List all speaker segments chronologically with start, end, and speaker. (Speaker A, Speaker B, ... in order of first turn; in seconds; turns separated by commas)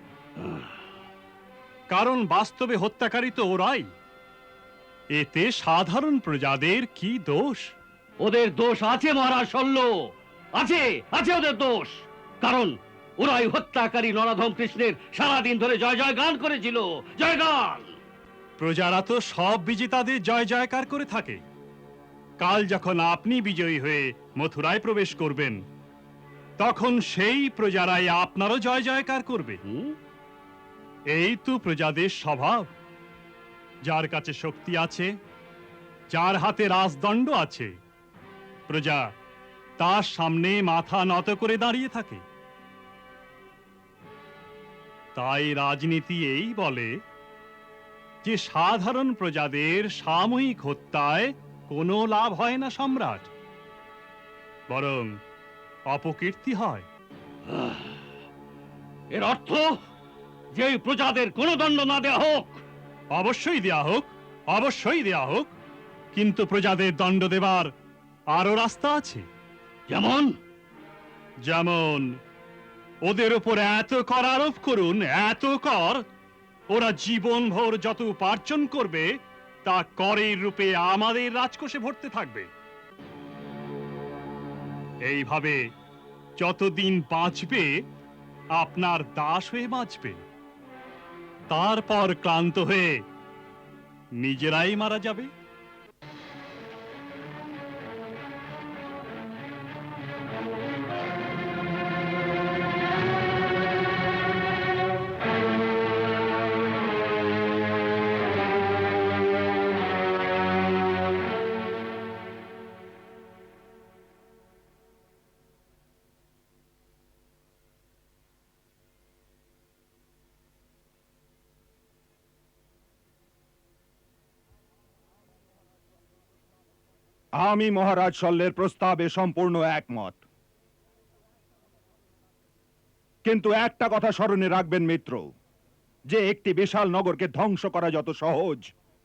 Speaker A: 1.9-3.9, Speaker A: 5.1-7.8, Speaker B: 8.2-9.9, Speaker B: 10.6-17.9, Speaker A: 18.6-21.4, Speaker A: 22.4-25.6, Speaker A: 26.6-29.6, Speaker B: 29.6-29.9, Speaker A: 31.1-32.7, Speaker A: 33.9-35.1, Speaker A: 36.1-37.7, Speaker A: 38.7-39.0, Speaker A: 39.8-42.2, Speaker A: 45.2-46.9, Speaker A: 48.2-53.3, Speaker A: 54.7-55.1, Speaker A: 55.9-56.9, Speaker B: 57.5-57.9, Speaker B: 59.1-59.7, Speaker B: 60.5-62.6, Speaker A: 63.1-65.5, Speaker A: 66.1-67.7, Speaker A: 68.3-69.2, Speaker B: 69.9-70.3, Speaker A: 71.5-72.1, Speaker A: 73.0-76.0, Speaker A: 76.7-79.1, Speaker A: 79.6-82.5, Speaker A: 85.1-85.6, Speaker A: 86.4-87.7, Speaker A: 88.6-90.2, Speaker A: 91.5-93.0, Speaker A: 94.2-95.3, Speaker C: 127.4-130.2, Speaker C: 133.2-135.3, Speaker C: 136.1-138.6